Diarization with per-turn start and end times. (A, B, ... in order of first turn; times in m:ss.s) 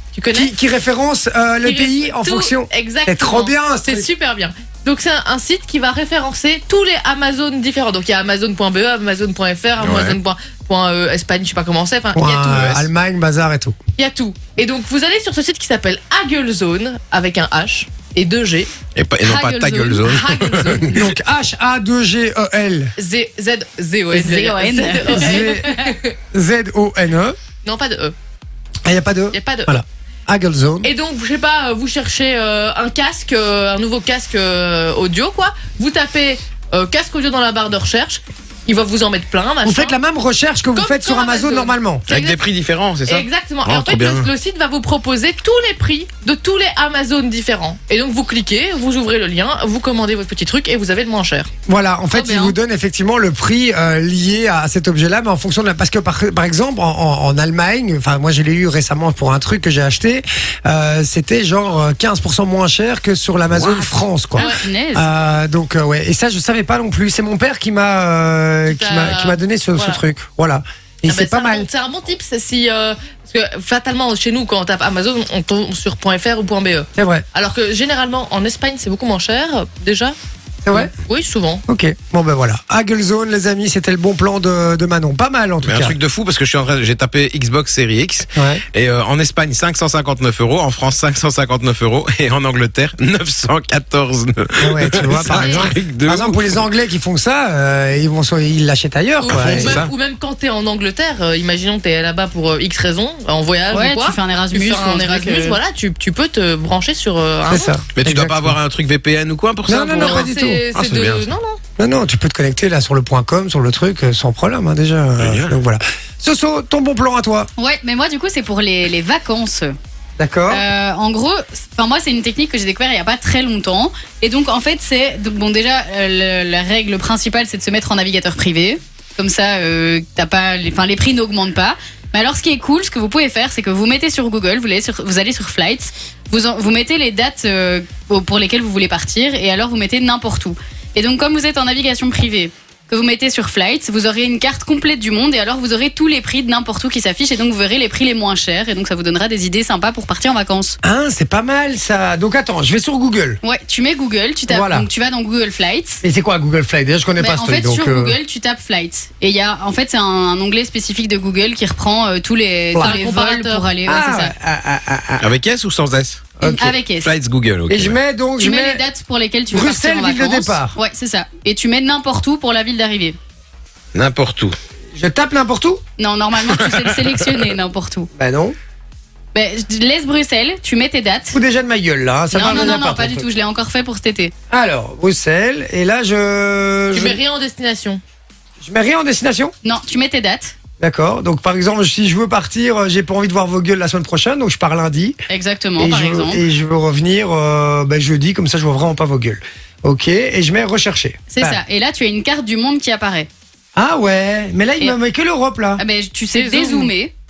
0:00.1-0:00.6 A
0:00.3-0:04.1 B
0:01.6-0:12.9 A
0:09.8-0:10.2 C
0:12.2-0:13.8 B
0:14.0-0:18.7 A
0:19.0-0:20.8 C
0:19.2-0:20.0 D
0:20.0-0:21.0 A
0:20.8-0:21.1 D
0:20.9-0:22.9 B
0:23.0-0:26.1 A
0:24.1-0:25.8 D
0:25.0-0:27.4 B
0:27.6-0:28.2 A
0:28.8-0:30.9 B
0:29.3-0:29.8 A
0:30.8-0:40.0 A
0:39.6-0:42.1 B
0:40.8-0:42.4 A
0:42.1-0:44.3 C
0:43.1-0:51.5 A
0:51.7-1:11.7 B
0:52.1-0:52.6 A
1:03.5-1:04.0 C
1:04.4-1:05.1 D
1:04.4-1:04.6 A
1:08.7-1:10.0 A
1:11.1-1:20.2 A
1:17.0-1:17.3 B
1:20.6-1:20.9 B
1:20.7-1:21.6 A
1:21.7-1:26.0 B
1:25.6-1:36.6 C
1:28.4-1:28.6 B
1:34.6-1:39.9 B
1:39.2-1:47.8 A
1:39.3-1:39.9 C
1:43.7-1:45.6 D
1:47.5-1:48.6 B
1:48.0-1:51.3 C
1:49.7-1:50.6 B
1:50.0-1:51.6 A
1:51.8-1:57.5 B
1:55.2-1:55.6 C
1:57.6-1:59.7 D
2:00.2-2:00.6 B
2:00.5-2:30.8 D
2:30.8-2:33.4 B
2:33.4-2:36.0 D
2:34.5-2:34.9 B
2:36.0-2:38.2 B
2:37.2-2:44.3 D
2:42.7-2:43.0 B
2:42.8-2:43.7 A
2:43.9-2:45.3 B
2:45.2-2:46.3 C
2:46.4-2:46.8 B
2:46.4-2:47.1 D
2:47.0-2:48.0 C
2:47.7-2:48.9 B
2:48.4-2:53.2 D
2:49.5-2:50.8 B
2:53.9-2:54.6 C
2:55.0-2:55.8 B
2:56.0-2:58.1 D
2:58.2-2:58.6 B
2:59.3-3:01.4 D
3:01.3-3:03.3 B
3:02.3-3:04.3 D
3:04.5-3:07.2 B
3:06.9-3:08.0 A
3:08.6-3:09.5 B
3:09.6-3:10.6 D
3:10.8-3:15.2 B
3:15.3-3:16.4 D
3:15.8-3:21.6 B
3:21.3-3:23.3 D
3:23.8-3:25.8 B
3:25.8-3:27.1 D
3:26.3-3:26.9 A